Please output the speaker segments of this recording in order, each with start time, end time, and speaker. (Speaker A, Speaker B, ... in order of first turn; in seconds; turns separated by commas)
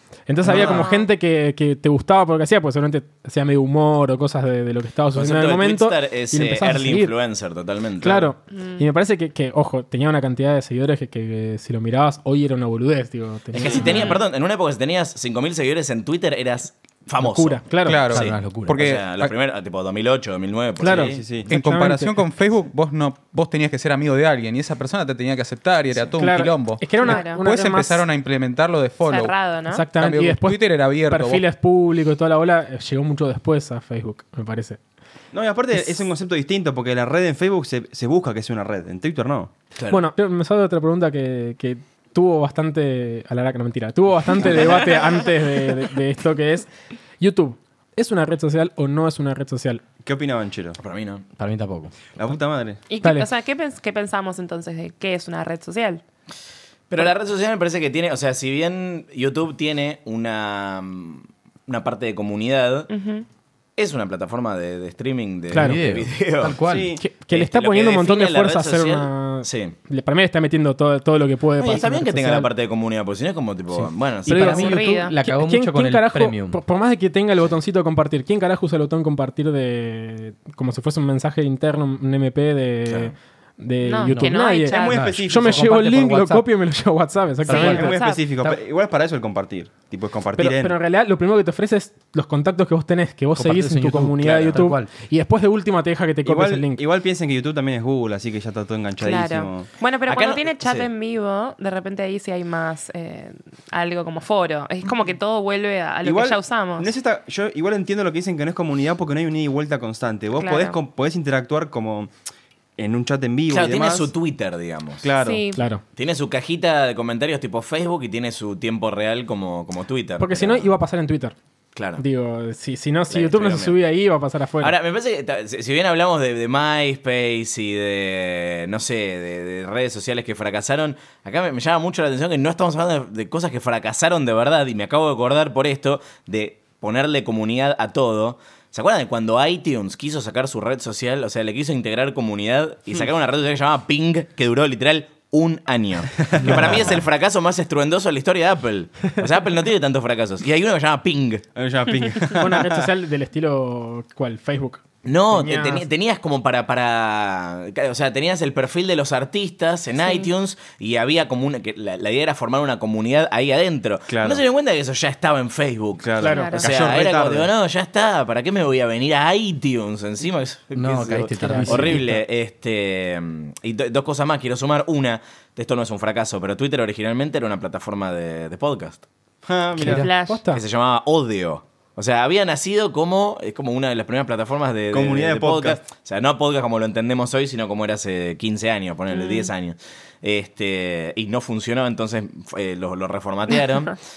Speaker A: 0.3-7.1, Speaker B: 0.4-0.9, Speaker C: 0.6-1.1, Speaker B: 5.1-8.3, Speaker A: 8.0-14.0, Speaker C: 8.5-8.8, Speaker B: 13.5-21.2, Speaker C: 13.7-14.2, Speaker A: 17.2-18.1, Speaker D: 17.8-19.3, Speaker E: 18.1-18.9, Speaker A: 20.8-22.2, Speaker F: 20.8-21.5, Speaker D: 21.5-29.4, Speaker A: 26.2-28.1, Speaker C: 27.0-27.4, Speaker C: 29.0-29.9, Speaker A: 29.7-34.8, Speaker D: 29.9-31.4, Speaker F: 35.3-39.5, Speaker A: 35.7-36.1, Speaker B: 39.7-40.0, Speaker A: 39.9-49.8, Speaker B: 44.4-45.0, Speaker F: 50.0-50.8, Speaker B: 50.8-51.2, Speaker E: 51.4-52.2, Speaker F: 52.1-52.8, Speaker C: 52.9-56.0, Speaker A: 53.0-53.3, Speaker B: 56.9-62.9, Speaker C: 62.9-63.2, Speaker B: 63.8-66.6, Speaker A: 65.5-65.8, Speaker E: 65.5-67.0, Speaker F: 66.6-67.0, Speaker A: 67.0-72.5, Speaker B: 67.3-69.7, Speaker B: 71.6-74.8, Speaker E: 73.7-76.6, Speaker A: 74.3-87.9, Speaker C: 74.3-75.1, Speaker B: 82.8-83.1, Speaker C: 83.8-85.0, Speaker E: 84.1-86.5, Speaker F: 84.6-85.8, Speaker E: 87.5-88.6, Speaker C: 87.5-88.3, Speaker F: 87.5-90.7, Speaker A: 90.4-96.8, Speaker E: 93.3-94.9, Speaker F: 96.2-99.7, Speaker C: 99.0-106.9, Speaker B: 100.1-100.9, Speaker F: 106.0-112.1, Speaker C: 110.3-110.8, Speaker F: 112.8-114.1, Speaker B: 113.5-115.1, Speaker F: 115.0-115.5, Speaker C: 115.2-115.6, Speaker A: 115.5-115.8, Speaker B: 115.9-120.7, Speaker A: 120.2-121.3, Speaker B: 121.7-122.0, Speaker A: 122.0-124.7, Speaker B: 123.1-123.8, Speaker B: 124.6-151.4, Speaker F: 146.3-146.8, Speaker E: 146.4-147.0, Speaker F: 151.6-152.9, Speaker A: 152.4-155.8, Speaker B: 155.0-179.0, Speaker F: 164.1-164.4, Speaker F: 166.0-167.5, Speaker A: 166.2-166.6, Speaker C: 166.3-166.7, Speaker E: 170.7-172.2, Speaker A: 171.4-172.0, Speaker F: 179.4-180.1, Speaker A: 179.8-180.6, Speaker E: 179.8-180.1, Speaker C: 179.9-180.4, Speaker B: 180.5-194.0, Speaker F: 184.9-185.8, Speaker C: 189.1-189.5